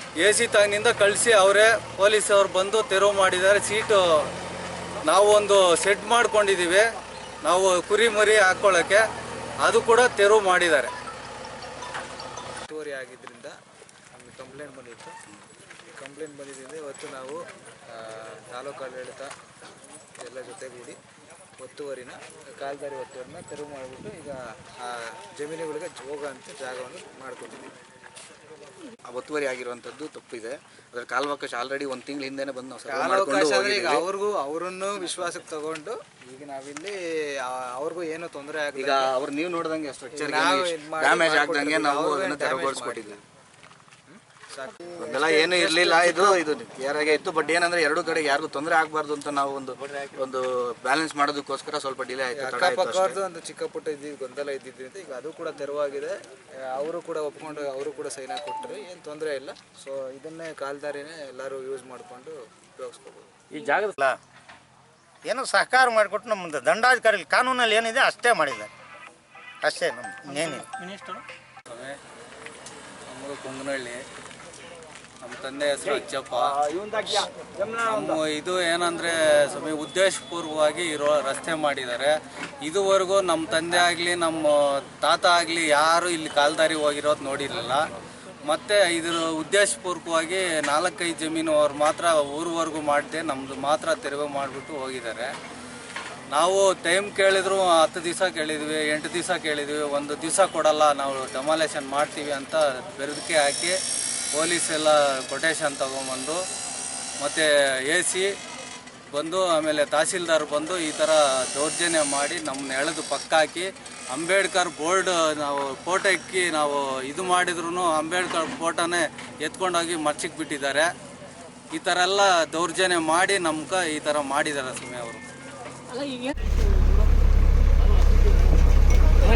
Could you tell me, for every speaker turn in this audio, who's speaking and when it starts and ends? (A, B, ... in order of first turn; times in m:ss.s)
0:00.2-0:04.0 A
0:05.0-0:06.9 A
0:07.4-0:09.0 A
0:09.6-0:10.9 A
0:12.6-0:13.6 B
0:14.1-0:15.2 B
0:15.9-0:19.3 B
0:20.2-0:21.0 B
0:21.6-0:27.7 B
0:29.1-0:34.0 C
0:32.8-0:39.1 B
0:38.7-0:43.2 C
0:40.1-0:43.1 B
0:44.1-0:46.4 B
0:45.0-0:53.2 C
0:52.3-1:03.3 B
1:03.7-1:04.2 D
1:05.2-1:08.7 D
1:09.6-1:10.7 D
1:10.4-1:12.0 A
1:13.1-1:14.0 A
1:15.2-1:16.6 A
1:17.1-1:27.9 A
1:28.4-1:35.3 A
1:36.3-1:43.8 A
1:44.3-1:46.4 A
1:47.2-1:48.3 A
1:49.1-2:00.9 A
2:01.7-2:05.2 A